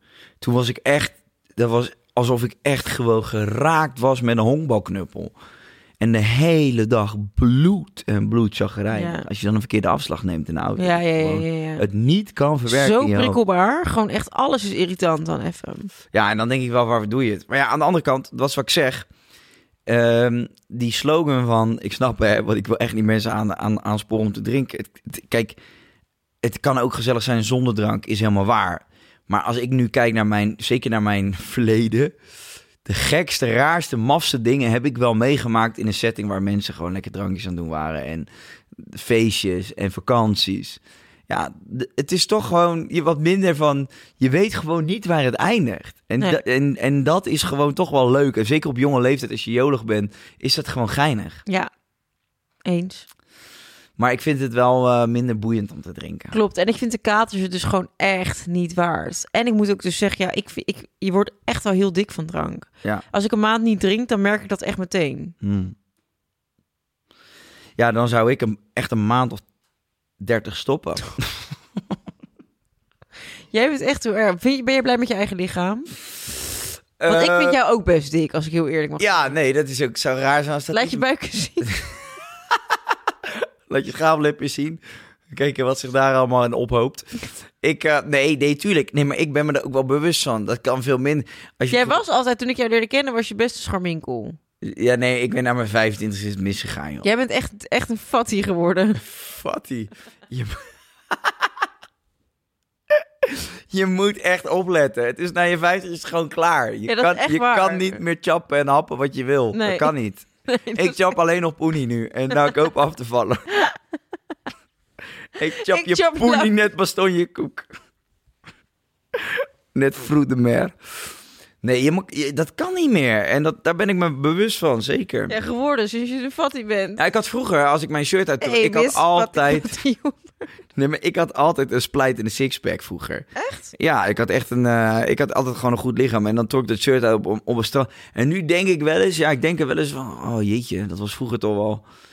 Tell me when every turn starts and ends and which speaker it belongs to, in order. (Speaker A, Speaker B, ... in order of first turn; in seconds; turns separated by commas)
Speaker A: 0.4-5.3, Speaker A: 6.0-13.4, Speaker B: 8.9-9.3, Speaker B: 10.8-11.8, Speaker B: 12.7-15.9, Speaker A: 16.1-19.1, Speaker A: 19.9-25.6, Speaker A: 26.4-32.1, Speaker A: 32.9-51.4, Speaker B: 52.6-53.0, Speaker A: 54.0-56.4, Speaker B: 56.3-65.3, Speaker A: 65.4-65.7, Speaker A: 67.8-69.4, Speaker A: 70.2-71.5, Speaker B: 73.5-75.9, Speaker A: 77.0-77.6, Speaker B: 77.1-79.3, Speaker A: 79.0-81.0, Speaker B: 80.7-81.8, Speaker A: 82.5-87.1, Speaker A: 87.6-92.0, Speaker B: 91.7-94.4, Speaker A: 94.6-97.1, Speaker B: 97.0-99.0, Speaker A: 99.0-101.5, Speaker A: 102.9-113.5, Speaker B: 106.9-108.0, Speaker B: 109.5-109.9, Speaker B: 110.5-111.1, Speaker A: 115.4-117.7, Speaker B: 115.5-116.5, Speaker A: 119.1-120.8, Speaker A: 121.6-125.4, Speaker B: 125.3-127.0, Speaker A: 127.0-129.7, Speaker B: 128.4-130.5, Speaker A: 130.8-141.8, Speaker B: 133.3-133.7